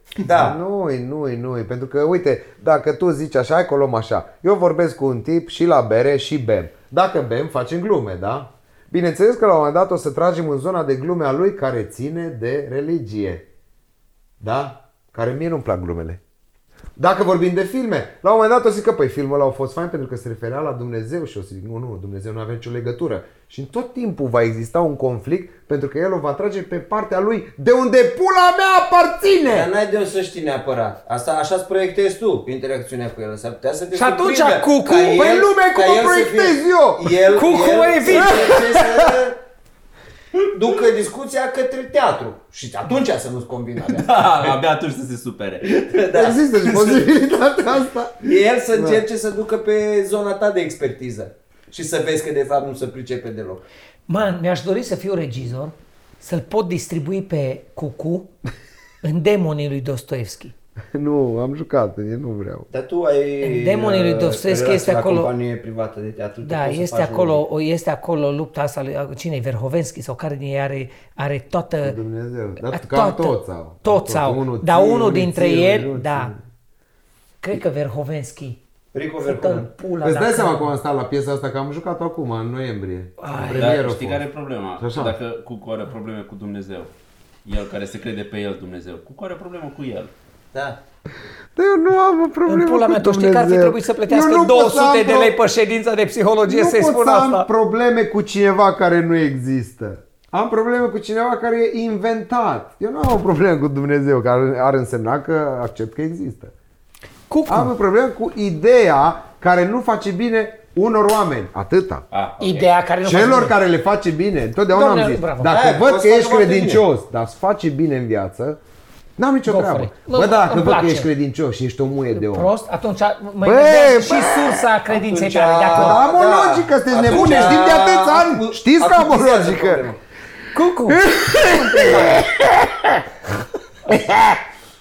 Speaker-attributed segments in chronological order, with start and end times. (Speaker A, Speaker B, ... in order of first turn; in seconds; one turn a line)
Speaker A: 0.2-0.6
Speaker B: 0.3-13.5
Speaker B: 14.4-16.2
Speaker B: 17.0-29.7
Speaker A: 29.5-39.4
Speaker C: 33.9-35.2
Speaker B: 34.9-37.2
Speaker C: 37.3-38.6
Speaker B: 38.0-39.3
Speaker A: 40.4-44.6
Speaker D: 43.9-45.8
Speaker A: 45.6-47.1
Speaker B: 46.1-49.0
Speaker A: 48.2-53.6
Speaker C: 54.1-58.3
Speaker C: 59.0-60.5
Speaker B: 60.9-62.7
Speaker A: 62.7-67.4
Speaker C: 63.4-65.3
Speaker C: 66.4-72.0
Speaker B: 71.8-76.4
Speaker C: 72.6-76.3
Speaker C: 77.4-78.6
Speaker A: 78.9-79.7
Speaker C: 79.2-80.7
Speaker B: 80.0-84.2
Speaker C: 83.2-83.8
Speaker D: 83.5-86.9
Speaker B: 84.8-85.2
Speaker D: 87.5-90.1
Speaker A: 90.5-90.8
Speaker B: 91.5-95.4
Speaker C: 92.5-97.5
Speaker B: 96.5-106.5
Speaker C: 107.3-107.7
Speaker B: 107.5-112.0
Speaker D: 112.1-112.7
Speaker C: 112.4-113.6
Speaker B: 113.0-118.6
Speaker C: 114.7-115.6
Speaker A: 115.5-116.8
Speaker B: 119.2-122.5
Speaker C: 119.5-121.1
Speaker C: 122.1-126.0
Speaker B: 123.4-124.7
Speaker A: 124.9-130.0
Speaker B: 125.7-129.9
Speaker C: 130.5-132.2
Speaker B: 130.9-133.0
Speaker B: 133.9-134.4